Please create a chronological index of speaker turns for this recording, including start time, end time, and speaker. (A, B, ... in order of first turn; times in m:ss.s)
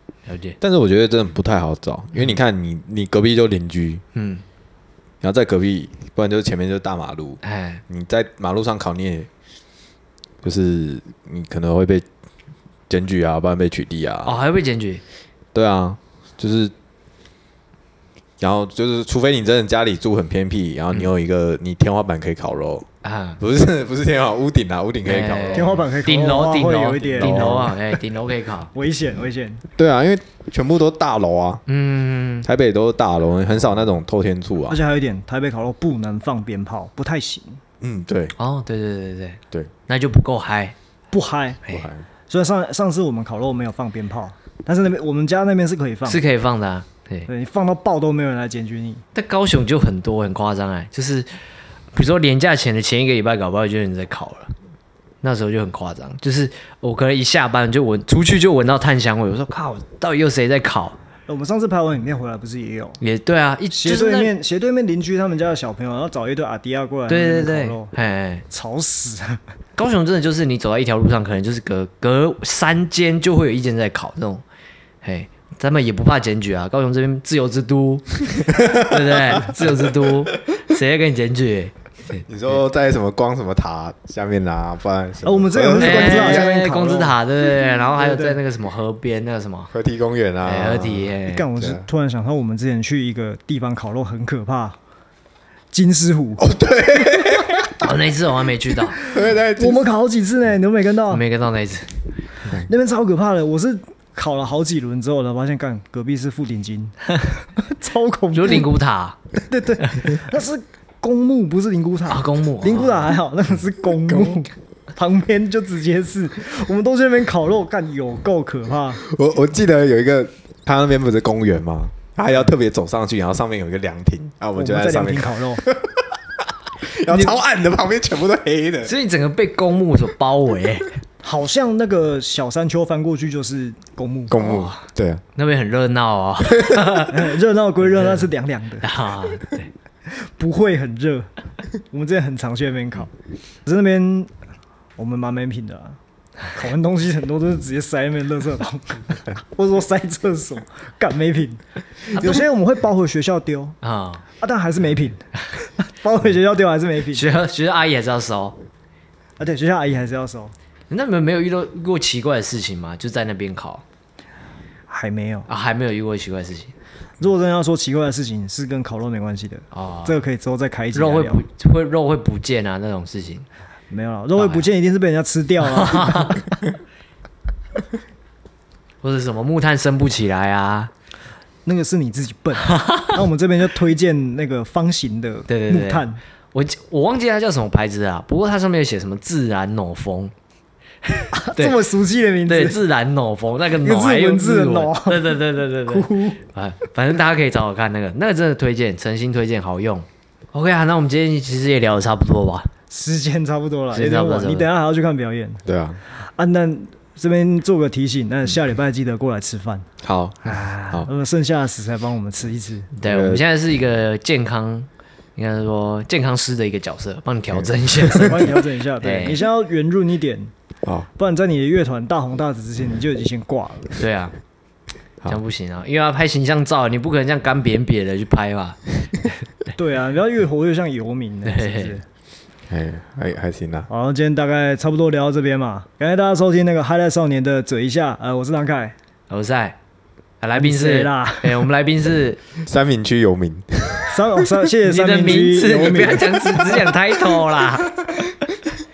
0:00.3-0:00.6 A
0:00.6-0:04.0 B
0:04.2-0:04.4 A
0:05.2-0:09.3 B
0:07.4-0:07.8 A
0:10.4-0:12.1 B
0:12.9-0:14.4 B
0:14.2-0:15.0 A
0:15.5-0:16.7 B
0:18.4-0:22.9 B
0:23.0-0:23.4 A
0:23.4-0:25.8 B
0:25.1-0:28.7 A
0:25.5-0:28.0 C
0:27.2-0:27.6 B
0:28.7-0:29.6 C
0:29.8-0:31.6 B
0:31.7-0:32.5 A
0:32.4-0:34.8 B
0:34.7-0:37.6 C
0:37.8-0:38.3 B
0:38.4-0:40.8 A
0:41.1-0:41.6 C
0:41.7-0:42.0 B
0:42.3-0:46.2 C
0:46.1-0:47.3 A
0:47.3-0:49.0 C
0:49.1-0:51.3 A
0:51.9-0:54.5 A
0:55.2-1:01.0 A
1:01.3-1:03.0 C
1:03.0-1:04.3 A
1:03.7-1:07.9 C
1:07.1-1:08.4 A
1:08.5-1:09.4 C
1:09.8-1:14.4 A
1:15.0-1:22.6 A
1:22.3-1:26.5 B
1:25.2-1:28.4 C
1:25.8-1:29.7 A
1:29.7-1:31.8 B
1:30.4-1:31.5 A
1:31.3-1:34.8 C
1:35.7-1:36.4 C
1:36.4-1:37.8 B
1:37.8-1:39.0 A
1:39.0-1:41.2 C
1:39.0-1:39.8 B
1:41.1-1:41.9 A
1:42.6-1:48.7 C
1:48.3-1:49.2 A
1:49.5-1:59.0 C
1:49.8-1:50.1 A
1:52.1-1:53.1 A
1:59.0-2:08.9 B
2:04.6-2:05.6 C
2:07.1-2:07.4 C
2:08.8-2:10.9 A
2:11.2-2:14.4 C
2:14.3-2:15.2 B
2:14.4-2:17.3 A
2:17.0-2:18.9 C
2:18.8-2:19.7 A
2:20.1-2:21.3 C
2:21.9-2:23.1 C
2:23.7-2:24.3 C
2:25.0-2:26.0 C
2:26.5-2:33.8 C
2:32.1-2:32.4 A
2:33.8-2:34.2 A
2:34.4-2:37.3 C
2:37.1-2:38.6 A
2:39.4-2:40.5 C
2:40.9-2:43.8 A
2:44.9-2:45.5 C
2:45.5-2:46.7 A
2:47.2-2:51.4 C
2:49.7-2:50.2 A
2:50.9-2:53.5 A
2:53.9-2:56.6 C
2:54.4-2:54.7 A
2:55.8-2:56.4 A
2:59.0-3:00.9 A
3:01.6-3:06.2 C
3:02.6-3:03.2 A
3:05.5-3:10.3 A
3:11.0-3:11.8 A
3:11.3-3:12.8 C
3:12.5-3:22.7 A
3:13.8-3:16.4 C
3:22.9-3:25.6 C
3:23.9-3:24.7 A
3:25.6-3:26.0 B
3:26.2-3:29.9 C
3:30.0-3:31.1 B
3:30.4-3:32.9 C
3:33.0-3:39.4 A
3:33.0-3:33.4 B
3:38.2-3:40.5 C
3:41.2-3:44.0 C
3:44.0-3:44.4 A
3:45.3-3:48.8 A
3:49.8-3:52.0 C
3:51.4-3:52.0 A
3:52.7-3:53.9 B
3:53.9-3:59.0 C
3:59.3-3:59.8 A
4:00.4-4:02.4 A
4:00.6-4:01.7 C
4:02.6-4:04.2 B
4:04.1-4:06.8 C
4:04.8-4:08.0 A
4:08.1-4:08.5 B